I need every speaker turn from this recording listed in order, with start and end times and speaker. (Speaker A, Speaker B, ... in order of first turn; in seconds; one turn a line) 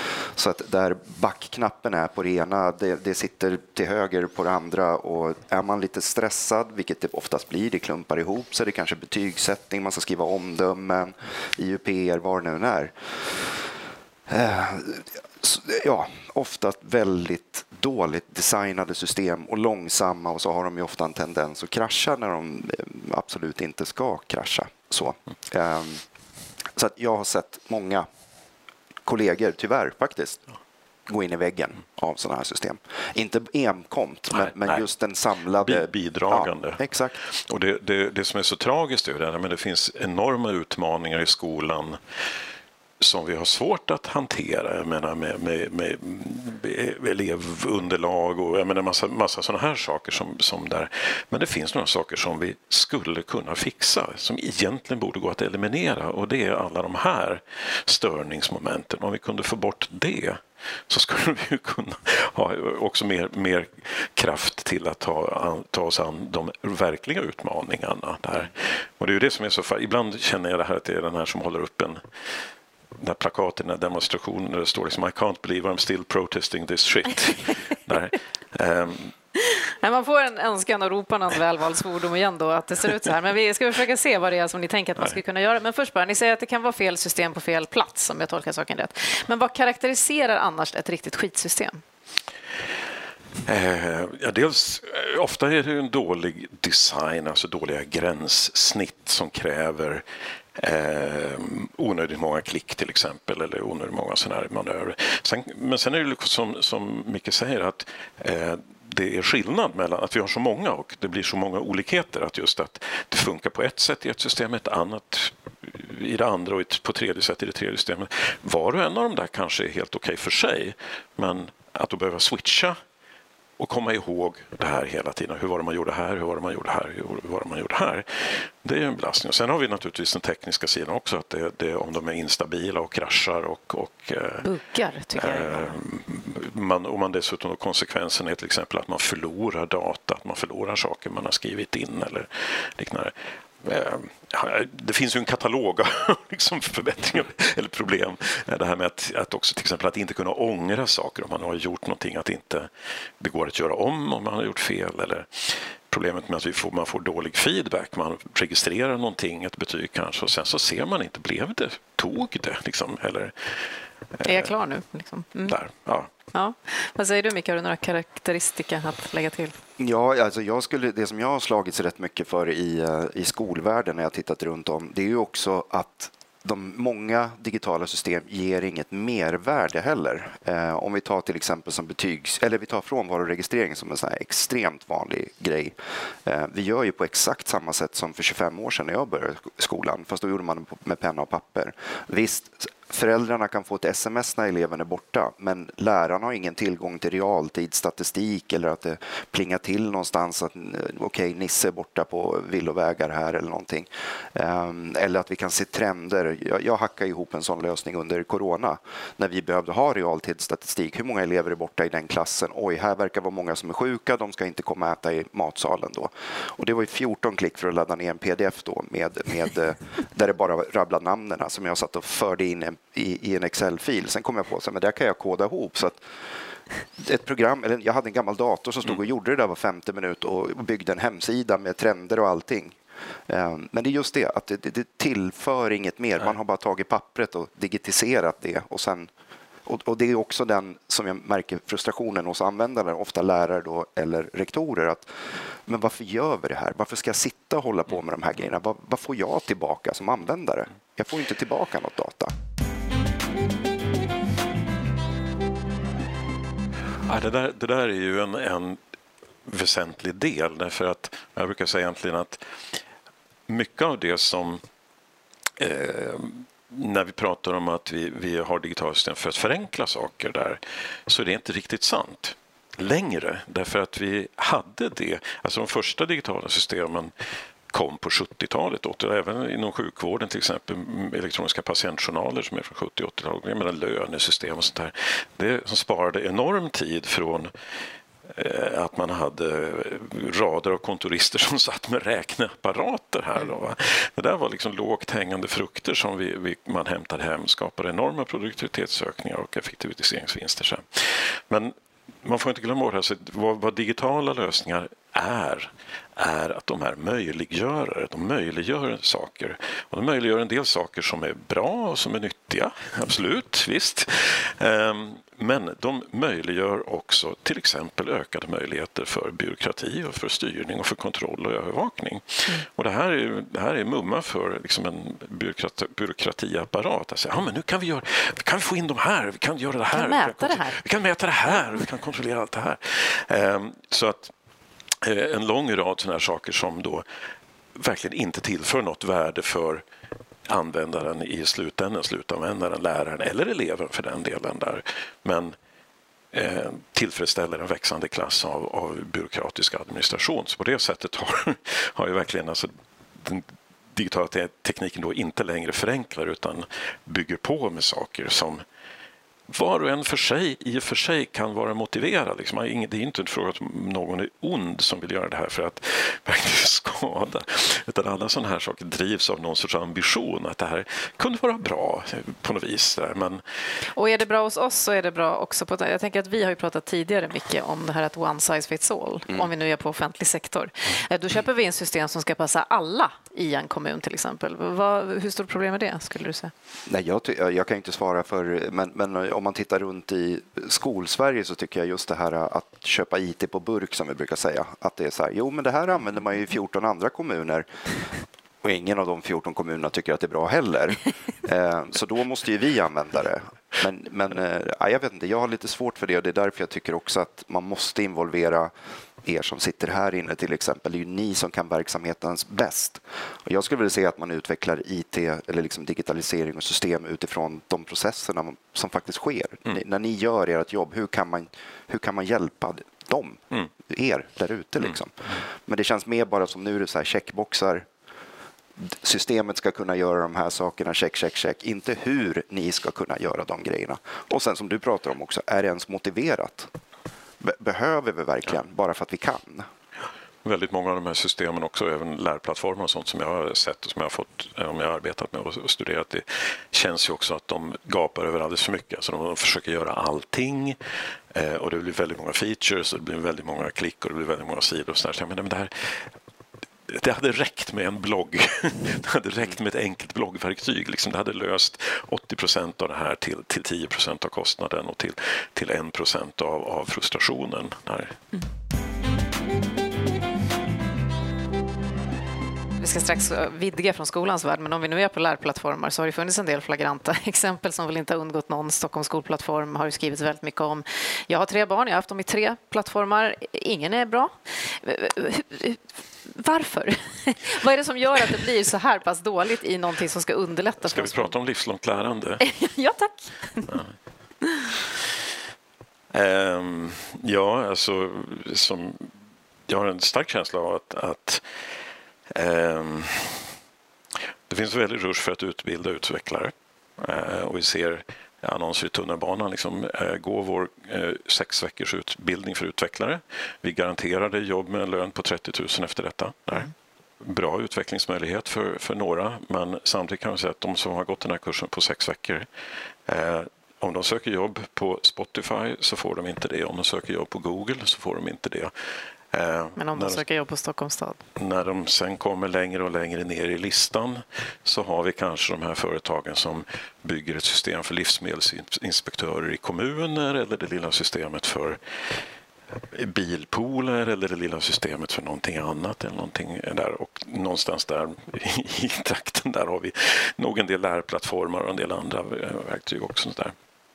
Speaker A: 0.3-12.9
Speaker A: 14.3-26.0
Speaker A: 26.7-28.1
Speaker A: 29.1-30.4
Speaker A: 31.1-37.2
Speaker B: 34.3-34.8
Speaker B: 35.6-42.0
Speaker B: 43.0-72.0
Speaker B: 73.0-79.1
Speaker C: 79.4-91.8
Speaker B: 93.5-100.0
Speaker B: 100.5-122.8
Speaker B: 123.6-134.5
Speaker C: 134.4-135.8
Speaker B: 135.2-152.7
Speaker B: 153.2-163.6
Speaker B: 164.1-164.5
Speaker C: 164.2-165.6
Speaker B: 165.4-166.1
Speaker C: 166.3-169.6
Speaker A: 169.8-226.1
Speaker A: 227.0-239.1
Speaker A: 239.7-252.3
Speaker B: 257.1-258.8
Speaker B: 259.4-262.8
Speaker B: 263.5-264.6
Speaker B: 265.6-277.1
Speaker B: 277.7-287.5
Speaker B: 288.3-334.3
Speaker C: 329.9-330.8
Speaker B: 335.0-337.0
Speaker B: 337.7-339.8
Speaker B: 340.4-345.5
Speaker B: 346.3-358.6
Speaker B: 359.5-373.4
Speaker C: 373.9-386.5
Speaker A: 386.9-397.7
Speaker A: 398.6-408.7
Speaker A: 409.2-427.9
Speaker A: 428.8-436.7
Speaker A: 437.4-439.7
Speaker B: 440.4-450.8
Speaker B: 451.3-456.1
Speaker B: 456.9-468.2
Speaker C: 472.8-491.3
Speaker B: 490.8-492.4
Speaker C: 492.4-493.7
Speaker B: 496.1-499.1
Speaker B: 499.7-501.4
Speaker B: 502.3-503.5
Speaker B: 504.5-522.5
Speaker B: 523.0-528.7
Speaker B: 529.3-530.2
Speaker C: 529.8-531.2
Speaker B: 531.4-542.2
Speaker B: 542.8-553.5